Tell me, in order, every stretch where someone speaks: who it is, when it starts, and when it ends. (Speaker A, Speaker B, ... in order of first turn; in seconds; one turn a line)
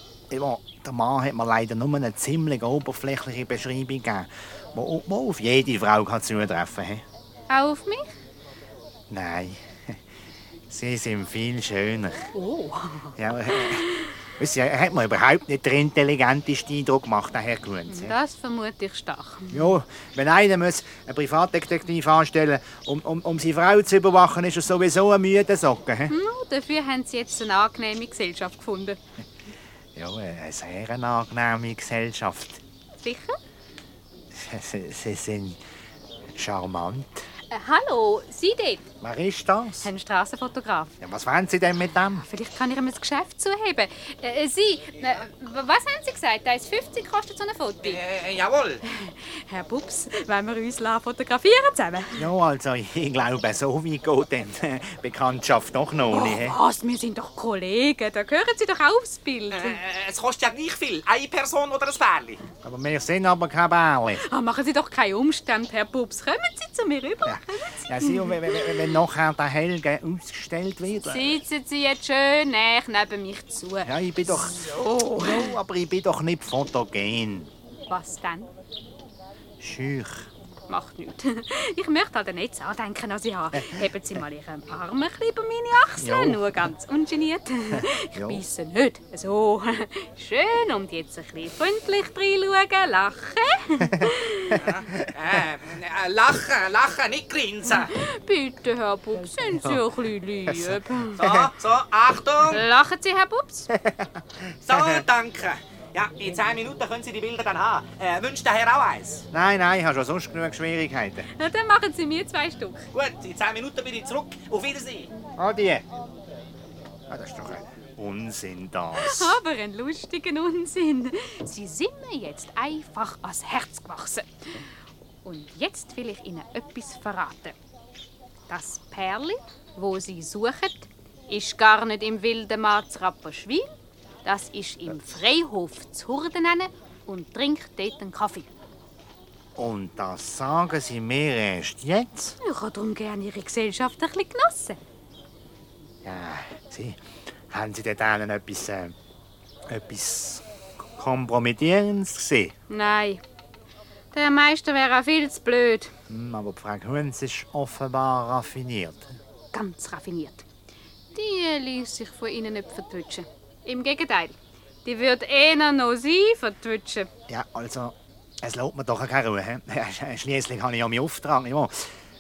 Speaker A: 0.3-7.0
Speaker B: 7.5-8.1
Speaker A: 9.1-10.0
Speaker A: 10.7-12.3
Speaker B: 12.3-13.1
Speaker A: 13.2-13.9
Speaker A: 14.4-18.1
Speaker B: 17.9-19.6
Speaker A: 19.5-26.1
Speaker B: 26.1-29.0
Speaker A: 29.9-32.6
Speaker B: 33.0-33.4
Speaker A: 34.3-35.6
Speaker A: 36.4-37.2
Speaker B: 37.5-38.9
Speaker A: 39.0-39.9
Speaker B: 39.8-41.0
Speaker A: 41.0-42.3
Speaker B: 42.2-48.0
Speaker C: 47.8-48.8
Speaker B: 48.9-52.2
Speaker A: 52.2-56.6
Speaker B: 56.1-59.8
Speaker C: 59.5-62.4
Speaker A: 62.6-64.2
Speaker B: 64.2-67.4
Speaker A: 67.2-71.4
Speaker B: 68.0-68.4
Speaker B: 71.0-73.9
Speaker A: 73.8-77.5
Speaker B: 74.5-75.5
Speaker B: 77.9-78.5
Speaker A: 79.6-80.3
Speaker B: 80.7-94.6
Speaker A: 86.0-86.7
Speaker A: 87.8-88.4
Speaker C: 94.7-97.9
Speaker B: 97.8-101.5
Speaker A: 100.5-100.8
Speaker C: 101.2-102.6
Speaker B: 102.5-103.7
Speaker A: 103.7-104.0
Speaker C: 104.7-109.3
Speaker A: 104.7-105.0
Speaker A: 109.3-111.3
Speaker B: 111.4-112.8
Speaker C: 112.9-115.1
Speaker A: 115.4-115.8
Speaker A: 117.1-119.4
Speaker B: 119.0-124.3
Speaker B: 125.2-127.5
Speaker B: 128.5-133.7
Speaker B: 134.2-138.5
Speaker A: 139.6-142.3
Speaker B: 142.4-144.8
Speaker A: 146.0-147.0
Speaker A: 147.5-148.9
Speaker A: 149.7-150.4
Speaker A: 151.0-152.5
Speaker B: 152.7-153.2
Speaker B: 154.1-155.9
Speaker A: 156.1-159.2
Speaker B: 159.5-160.5
Speaker B: 161.1-167.1
Speaker A: 167.3-171.8